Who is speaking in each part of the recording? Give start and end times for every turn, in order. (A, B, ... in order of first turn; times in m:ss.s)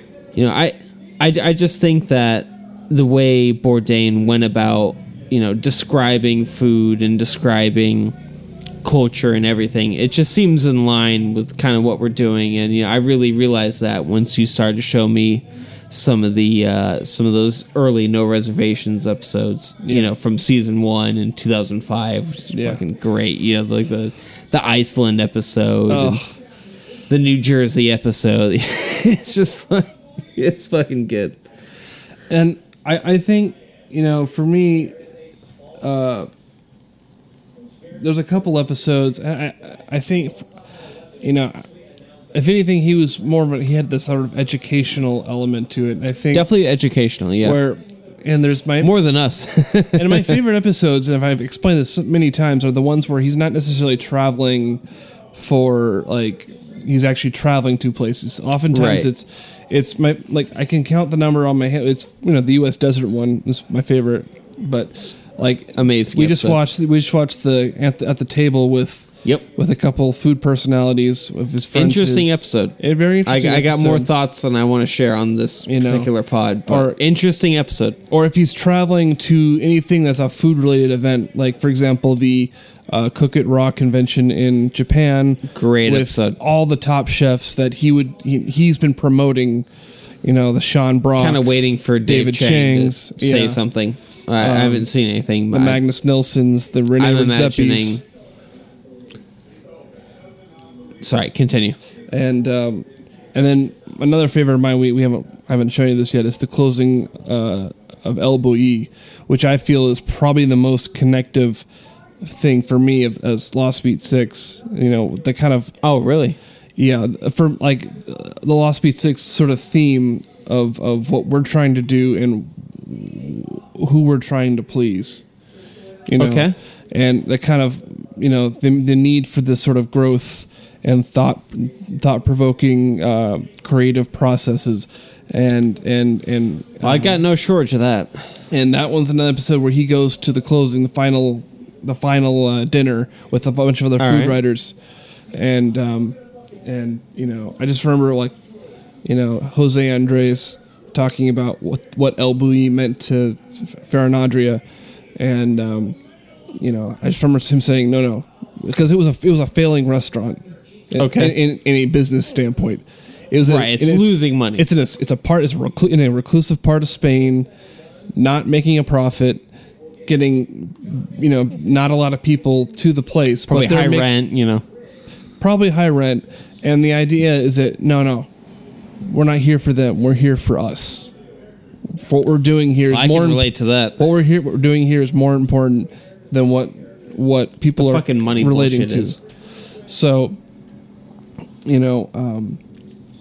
0:00.4-0:08.1 A
0:08.8-0:26.2 A
0:19.8-0:20.1 B
0:22.5-0:22.8 B
0:25.9-0:26.3 B
0:27.1-0:31.4 A
0:32.3-0:34.9 B
0:35.8-0:36.3 B
0:38.0-0:40.5 B
0:41.2-0:41.7 B
0:42.4-0:46.5 B
0:46.3-0:47.6 A
0:47.4-0:48.9 B
0:48.8-0:50.4 A
0:49.9-0:54.8 B
0:55.4-1:14.1 B
0:58.7-0:59.1 A
1:05.8-1:06.6 A
1:11.7-1:18.0 A
1:15.7-1:16.1 B
1:16.7-1:17.0 B
1:18.1-1:29.6 B
1:25.5-1:26.4 A
1:30.2-1:33.6 B
1:31.2-1:35.8 A
1:34.4-1:34.9 B
1:35.5-1:38.0 B
1:37.0-1:38.0 A
1:41.0-1:41.8 A
1:42.1-1:51.6 B
1:52.2-1:55.8 B
1:55.8-1:56.4 A
1:56.8-2:05.2 B
2:06.1-2:17.2 B
2:06.2-2:06.6 A
2:16.8-2:18.2 A
2:18.5-2:24.8 B
2:24.0-2:24.4 A
2:25.3-2:28.4 B
2:29.0-2:34.6 B
2:35.2-2:36.0 B
2:36.6-2:47.5 B
2:41.0-2:41.4 A
2:43.4-2:44.7 A
2:48.2-2:49.4 B
2:50.1-2:54.1 B
2:53.5-2:54.6 A
2:55.4-2:58.3 B
2:59.1-3:01.1 B
3:01.9-3:09.2 B
3:02.9-3:04.0 A
3:07.8-3:09.2 A
3:09.9-3:10.4 B
3:11.6-3:12.6 B